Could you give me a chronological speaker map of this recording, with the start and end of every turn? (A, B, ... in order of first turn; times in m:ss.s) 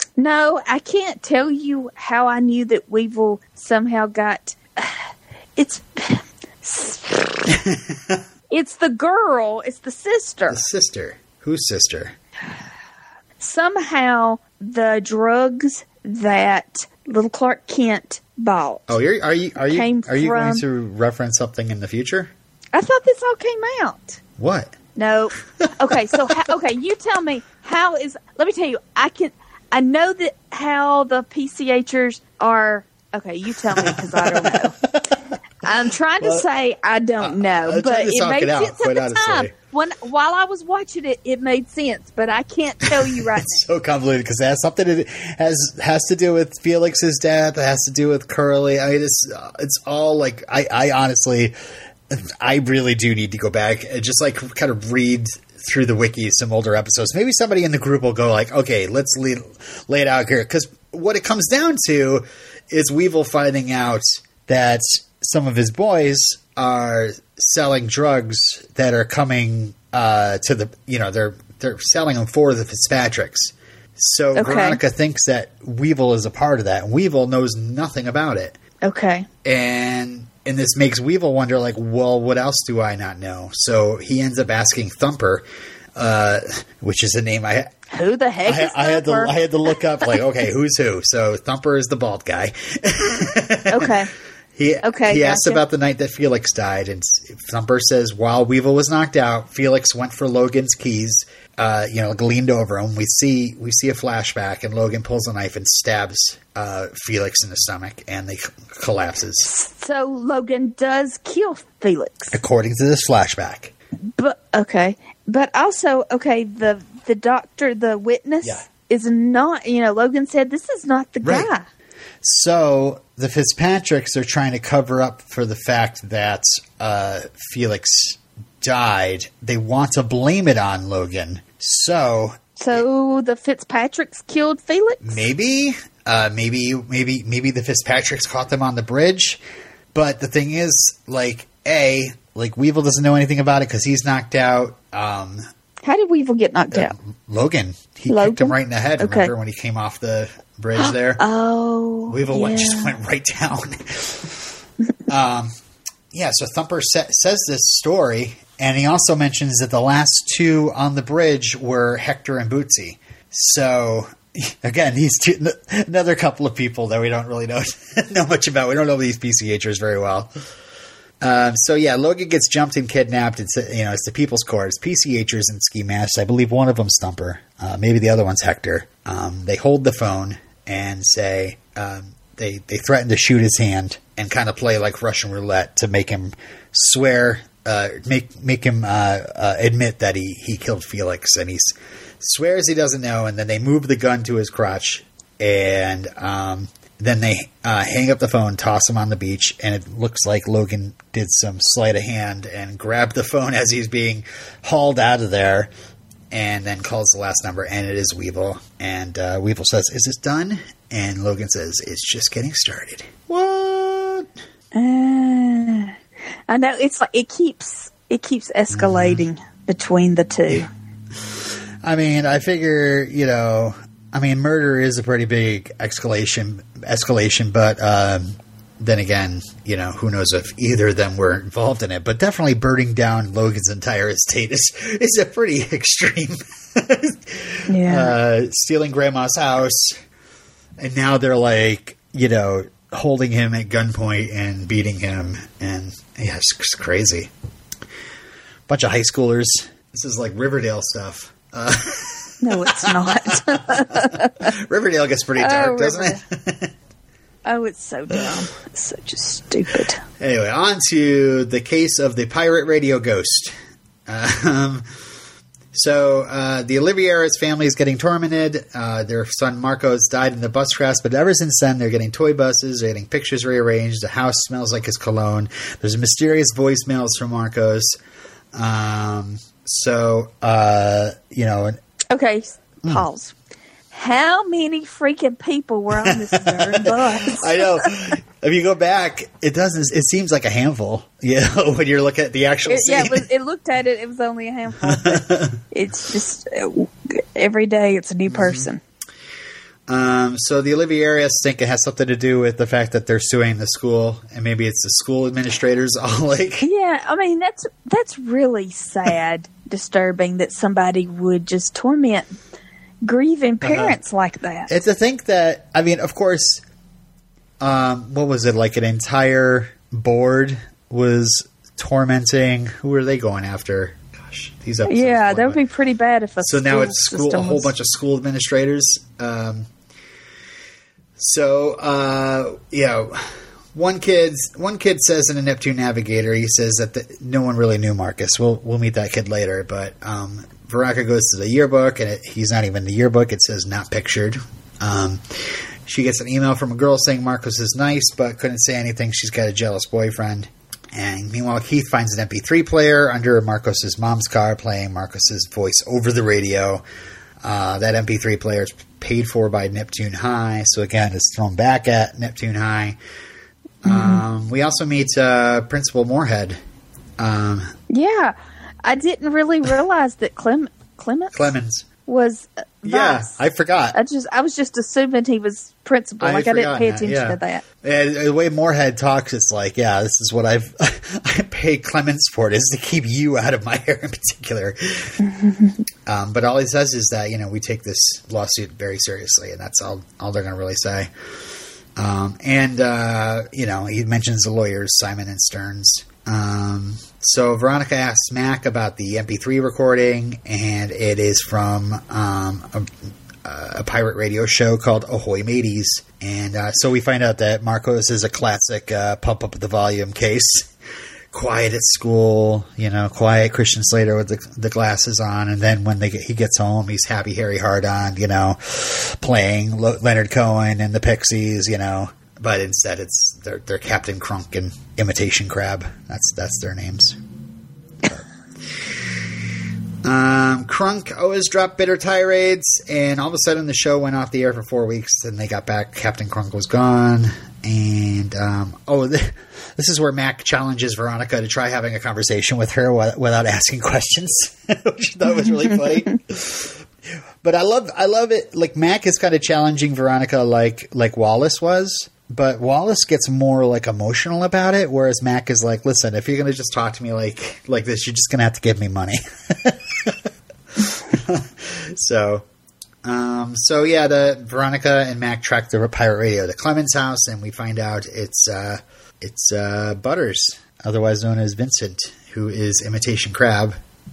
0:00.2-0:07.5 A
0:07.5-0:08.2 B
0:08.5-0:10.6 A
0:10.5-0:12.1 B
0:13.4-0:18.9 A
0:18.9-0:22.3 B
0:19.7-0:20.6 A
0:22.7-0:24.2 A
0:24.4-0:24.7 B
0:24.9-0:34.8 A
0:25.6-0:26.4 B
0:33.6-0:35.4 B
0:35.6-0:43.6 A
0:37.2-0:39.5 B
0:43.0-0:51.5 B
0:52.1-1:18.6 B
1:14.3-1:14.8 A
1:18.8-1:19.3 A
1:19.4-1:25.4 B
1:26.0-1:27.7 B
1:27.9-1:29.3 A
1:28.4-1:34.0 B
1:33.7-1:34.1 A
1:34.6-1:49.5 B
1:34.8-1:35.6 A
1:49.4-1:52.4 A
1:52.3-1:53.7 B
1:54.2-2:01.6 A
2:01.2-2:01.5 B
2:02.2-2:12.8 B
2:12.6-2:15.2 A
2:15.0-2:19.4 B
2:19.9-2:25.4 B
2:25.8-2:26.9 A
2:26.7-2:31.2 B
2:28.1-2:29.3 A
2:30.8-2:32.9 A
2:32.1-2:34.4 B
2:35.1-2:35.5 B
2:36.1-2:50.3 B
2:51.2-3:25.7 B
3:26.3-3:34.3 B
3:34.7-3:36.0 A
3:36.5-3:40.7 A
3:38.7-3:39.2 B
3:41.8-4:00.0 B
3:57.7-3:58.1 A
4:00.8-4:07.3 B
4:08.7-4:16.7 B
4:12.4-4:14.5 A
4:15.4-4:16.2 A
4:17.4-4:20.0 A
4:20.2-4:23.5 B
4:24.0-4:24.8 B
4:25.7-4:38.0 B
4:38.5-4:41.8 B
4:42.1-4:43.3 A
4:43.9-4:47.9 A
4:46.0-4:53.3 B
4:52.6-4:58.8 A
4:54.8-4:55.6 B
4:58.3-4:58.7 B
4:59.9-5:06.7 B
5:06.6-5:12.4 A
5:13.0-5:14.7 A
5:13.6-5:14.0 B
5:14.7-5:16.6 B
5:17.6-5:25.6 B
5:24.9-5:27.7 A
5:26.4-5:29.7 B
5:31.2-5:56.8 B
5:57.4-6:03.0 B
6:03.8-6:06.6 B
6:03.8-6:04.2 A
6:07.2-6:07.7 B
6:07.9-6:11.5 A
6:11.3-6:11.9 B
6:12.0-6:13.4 A
6:12.8-6:14.0 B
6:13.9-6:17.6 A
6:16.2-6:25.2 B
6:25.2-6:25.7 A
6:26.0-6:31.1 B
6:32.0-6:50.7 B
6:51.3-7:07.2 B
7:10.0-7:26.8 B
7:27.4-7:42.4 B
7:43.0-7:53.8 B